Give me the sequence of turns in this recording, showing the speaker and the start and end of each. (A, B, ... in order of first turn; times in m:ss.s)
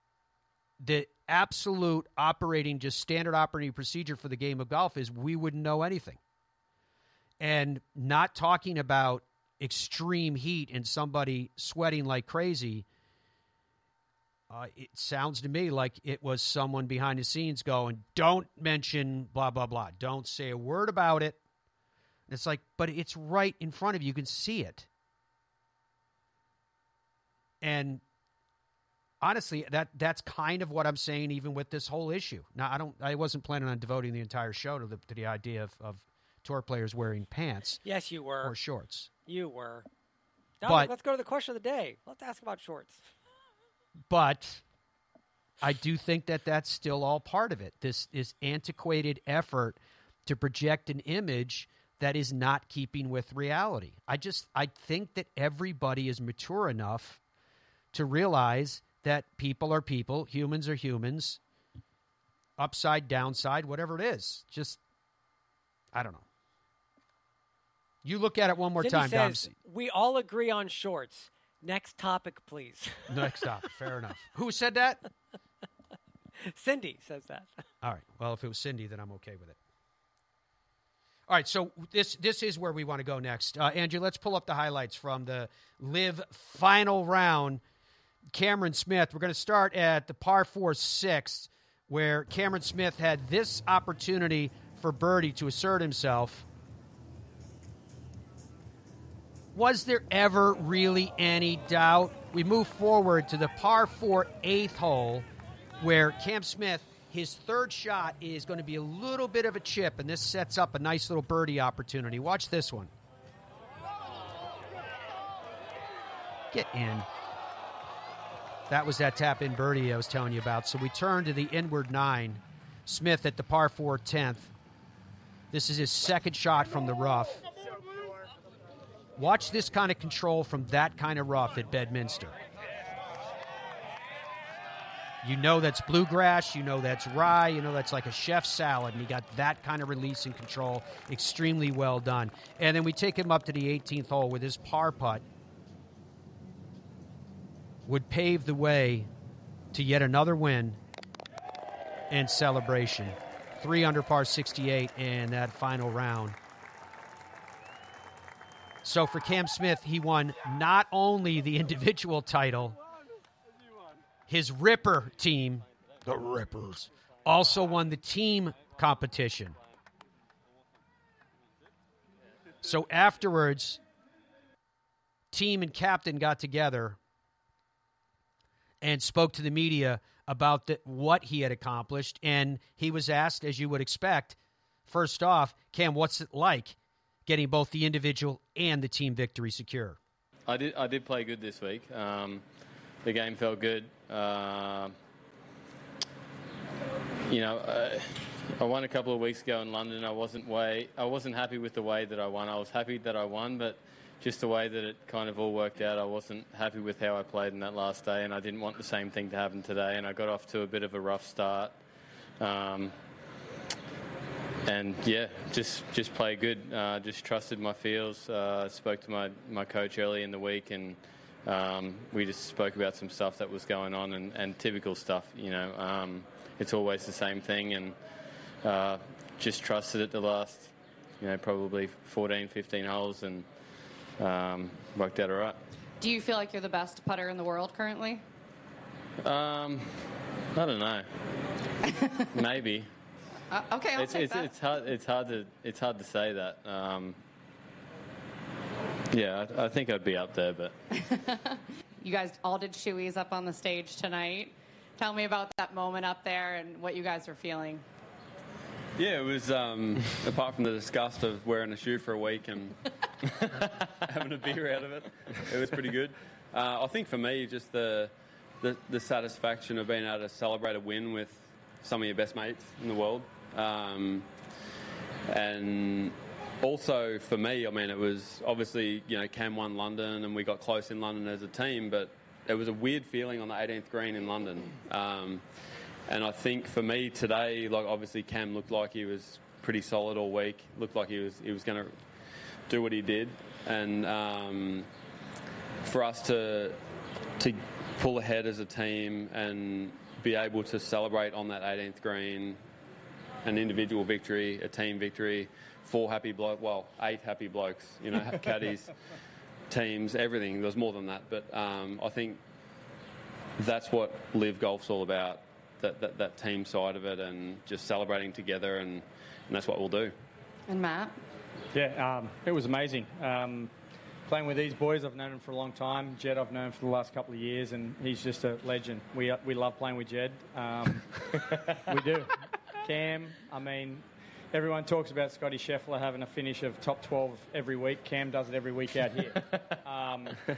0:00.8-0:06.2 A
0:07.4-0:12.8 A
0:14.5-0:21.4 A
0:22.3-0:24.9 A
0:27.6-0:28.0 A
0:29.2-0:37.8 A
0:37.8-0:38.6 B
0:38.4-0:39.1 A
0:39.2-0:39.9 B
0:40.6-0:43.0 B
0:40.6-0:40.9 A
0:44.1-0:44.6 A
0:45.6-0:57.2 A
0:57.9-1:01.4 A
1:02.6-1:04.8 A
1:05.9-1:06.2 A
1:08.0-1:09.5 A
1:08.8-1:13.4 B
1:13.1-1:15.0 A
1:16.4-1:17.6 B
1:17.8-1:19.6 A
1:21.3-1:27.6 A
1:28.3-1:36.4 A
1:39.5-1:45.3 A
1:45.8-1:52.9 A
1:56.5-1:57.1 A
1:58.7-2:04.5 A
2:05.5-2:07.4 A
2:09.2-2:12.4 A
2:15.2-2:25.2 A
2:27.8-2:29.1 A
2:29.7-2:30.8 A
2:32.1-2:36.4 A
2:38.8-2:42.8 A
2:44.3-2:49.6 A
2:52.6-2:53.8 A
2:55.3-2:57.0 A
2:58.8-3:10.0 A
3:10.5-3:12.4 C
3:13.0-3:14.9 C
3:17.3-3:31.8 C
3:32.4-3:33.0 C
3:34.6-3:48.0 C
3:48.6-3:53.4 C
3:54.2-3:55.6 C
3:56.0-3:58.2 D
3:59.2-4:01.1 C
4:01.9-4:02.2 D
4:02.3-4:02.9 C
4:03.5-4:04.5 D
4:03.9-4:07.2 C
4:09.1-4:10.7 C
4:11.0-4:17.8 D
4:19.0-4:34.3 E
4:35.3-4:45.4 E
4:46.1-4:52.0 E
4:52.7-4:54.9 E
4:55.8-4:56.8 E
4:57.4-5:02.6 E
5:03.4-5:08.9 E
5:09.7-5:12.4 E
5:13.6-5:20.1 E
5:20.7-5:21.1 D
5:21.7-5:23.7 F
5:24.2-5:32.3 F
5:32.8-5:40.4 F